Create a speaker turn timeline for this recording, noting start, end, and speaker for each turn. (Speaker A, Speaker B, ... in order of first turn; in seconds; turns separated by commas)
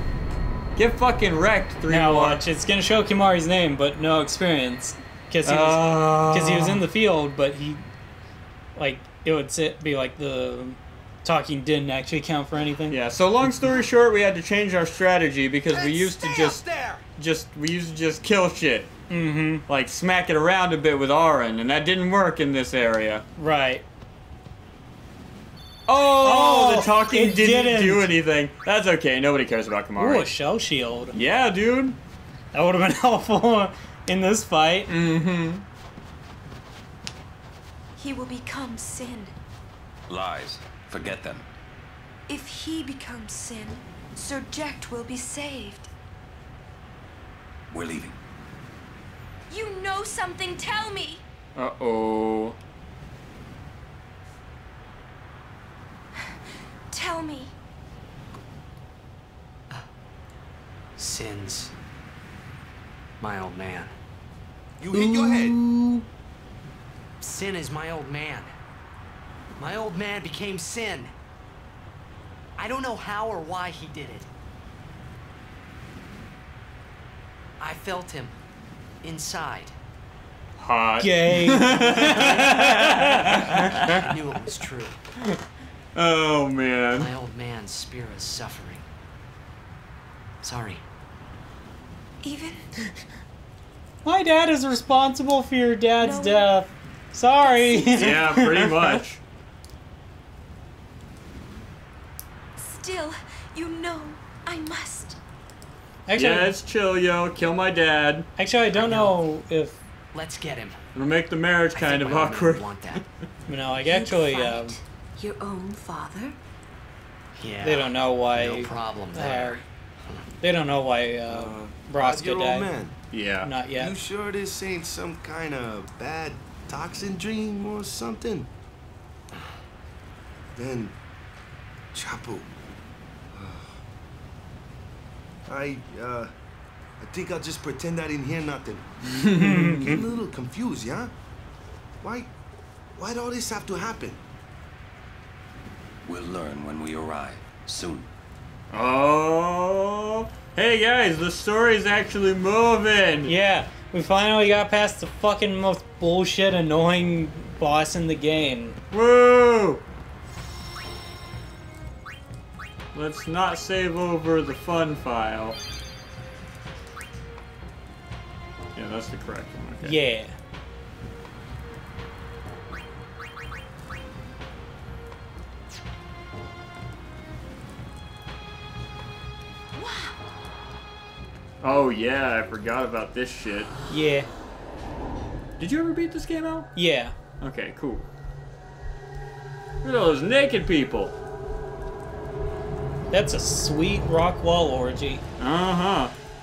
Speaker A: 0.8-2.4, Speaker B: 1.9-7.8, Speaker A: 5.4-6.8, Speaker B: 8.7-13.0, Speaker A: 12.9-16.6, Speaker C: 15.7-16.9, Speaker D: 15.7-17.0, Speaker A: 17.2-18.9, Speaker B: 19.1-19.6, Speaker A: 19.7-23.2, Speaker B: 23.4-23.8, Speaker A: 25.9-30.3, Speaker B: 26.2-28.1, Speaker B: 30.0-31.1, Speaker A: 31.1-32.0, Speaker B: 32.5-34.9, Speaker A: 34.9-35.6, Speaker E: 38.0-39.4, Speaker F: 40.1-41.5, Speaker E: 42.3-45.9, Speaker F: 47.7-48.2, Speaker E: 49.5-51.2, Speaker A: 51.5-52.6, Speaker E: 56.9-57.5, Speaker D: 61.0-61.7, Speaker D: 63.2-64.0, Speaker C: 64.8-65.6, Speaker B: 64.9-66.0, Speaker D: 67.2-68.5, Speaker D: 69.6-71.1, Speaker D: 72.6-74.3, Speaker D: 77.6-78.4, Speaker D: 79.0-79.8, Speaker A: 80.6-84.1, Speaker B: 81.0-84.0, Speaker D: 83.9-85.0, Speaker A: 85.9-87.1, Speaker D: 86.9-88.8, Speaker D: 90.4-90.8, Speaker E: 92.2-92.7, Speaker B: 94.0-99.0, Speaker E: 96.0-96.5, Speaker E: 97.4-98.4, Speaker A: 97.9-99.2, Speaker E: 102.5-105.2, Speaker B: 106.1-106.5, Speaker A: 106.1-108.3, Speaker B: 108.4-109.8, Speaker D: 108.7-109.2, Speaker D: 110.1-110.8, Speaker A: 110.9-113.0, Speaker D: 111.7-113.0, Speaker B: 113.5-114.8, Speaker E: 113.8-116.4, Speaker D: 117.3-120.3, Speaker B: 117.6-119.6, Speaker B: 120.4-122.7, Speaker C: 121.3-123.0, Speaker A: 123.1-123.5, Speaker B: 123.4-123.9, Speaker C: 123.7-128.5, Speaker C: 130.5-130.9, Speaker C: 131.9-132.5, Speaker C: 133.3-133.8, Speaker C: 135.4-136.3, Speaker C: 137.0-141.1, Speaker A: 139.2-139.7, Speaker B: 139.3-140.0, Speaker C: 142.0-142.3, Speaker C: 142.9-144.2, Speaker F: 146.0-148.1, Speaker A: 148.7-153.3, Speaker B: 153.2-158.8, Speaker A: 158.9-159.8, Speaker A: 162.9-165.6, Speaker A: 168.8-170.0, Speaker B: 169.8-170.4, Speaker E: 179.7-180.2, Speaker A: 181.6-183.7, Speaker B: 183.9-184.3, Speaker A: 185.6-186.7, Speaker B: 186.7-187.1, Speaker A: 187.4-188.1, Speaker A: 189.8-191.1, Speaker B: 193.1-195.2, Speaker A: 195.4-196.1